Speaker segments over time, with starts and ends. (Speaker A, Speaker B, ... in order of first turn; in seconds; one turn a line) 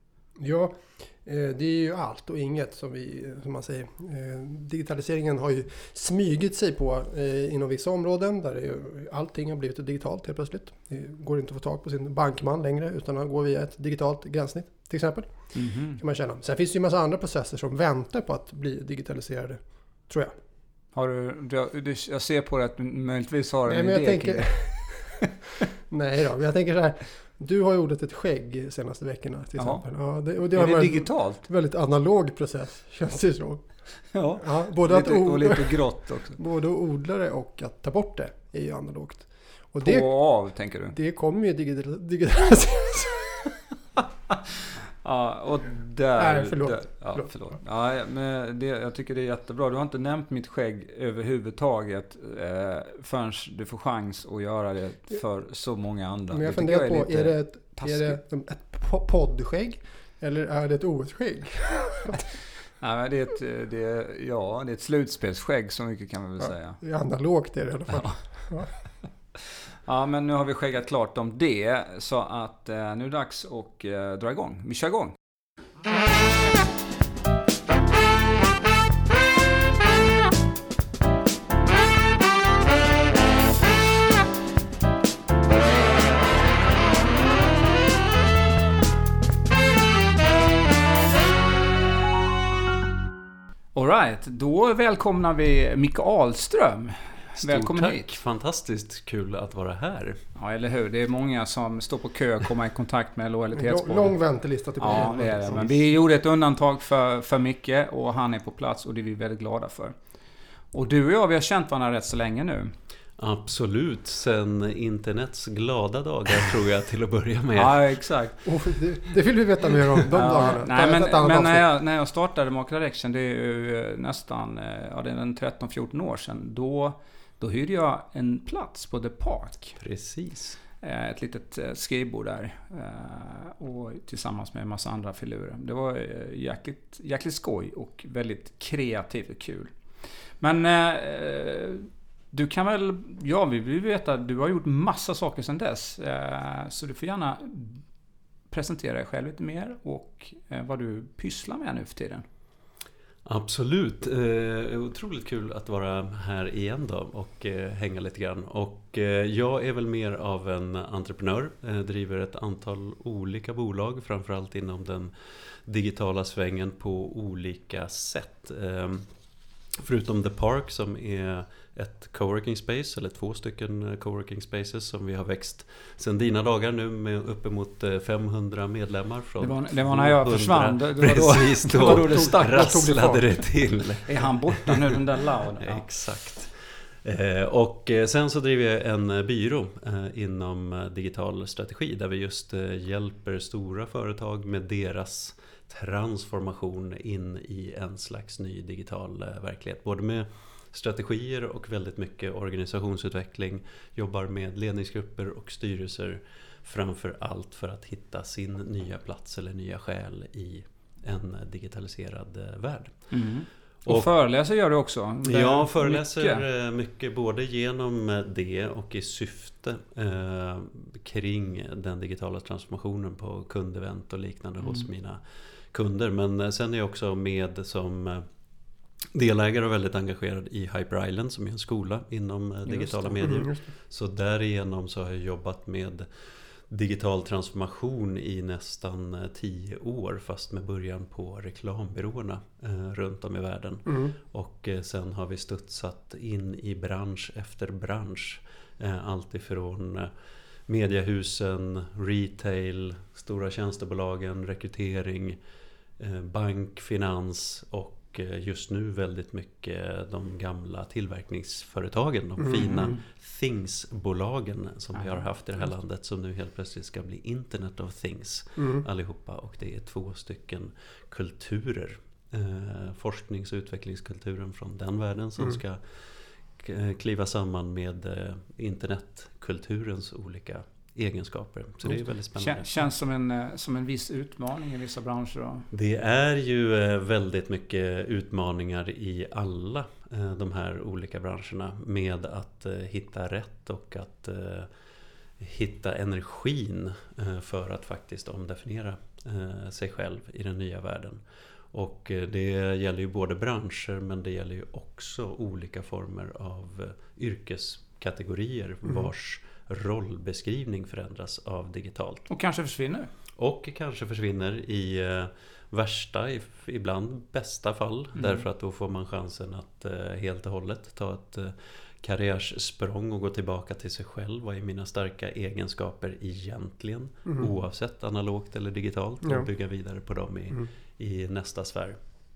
Speaker A: 0.4-20.4
Speaker B: 15.5-16.0
Speaker B: 20.9-25.2
Speaker A: 23.7-25.3
Speaker A: 25.9-33.7
Speaker B: 29.6-29.8
Speaker B: 30.5-31.5
Speaker B: 34.1-36.4
Speaker A: 34.4-40.2
Speaker B: 39.8-41.0
Speaker A: 40.9-43.5
Speaker B: 45.0-58.2
Speaker A: 46.2-47.3
Speaker A: 56.3-62.4
Speaker B: 62.8-66.8
Speaker A: 66.4-68.8
Speaker B: 67.9-68.6
Speaker B: 69.8-75.2
Speaker B: 93.8-98.1
Speaker C: 97.4-100.2
Speaker B: 100.3-104.2
Speaker A: 103.5-105.8
Speaker B: 104.8-110.0
Speaker B: 110.7-112.8
Speaker C: 113.2-117.9
Speaker B: 117.6-118.6
Speaker A: 118.5-121.7
Speaker B: 120.1-129.8
Speaker C: 129.8-130.6
Speaker B: 130.8-147.8
Speaker B: 148.5-152.3
Speaker C: 153.2-165.1
Speaker C: 165.7-169.1
Speaker C: 169.8-184.7
Speaker B: 179.4-182.7
Speaker A: 181.8-183.4
Speaker B: 184.1-185.8
Speaker C: 185.6-213.1
Speaker B: 213.1-216.4
Speaker C: 215.2-228.3
Speaker C: 229.1-236.1
Speaker A: 233.2-233.6
Speaker C: 236.7-250.1
Speaker A: 243.9-244.2
Speaker C: 250.7-255.4
Speaker C: 256.0-276.1
Speaker A: 262.4-262.9
Speaker B: 262.6-262.9
Speaker B: 264.9-265.2
Speaker A: 268.6-268.8
Speaker C: 276.6-282.7
Speaker B: 282.4-285.7
Speaker C: 285.7-294.7
Speaker C: 295.4-301.2
Speaker C: 301.7-312.3
Speaker B: 312.3-313.1
Speaker C: 313.4-332.0
Speaker B: 318.2-318.4
Speaker A: 327.3-327.5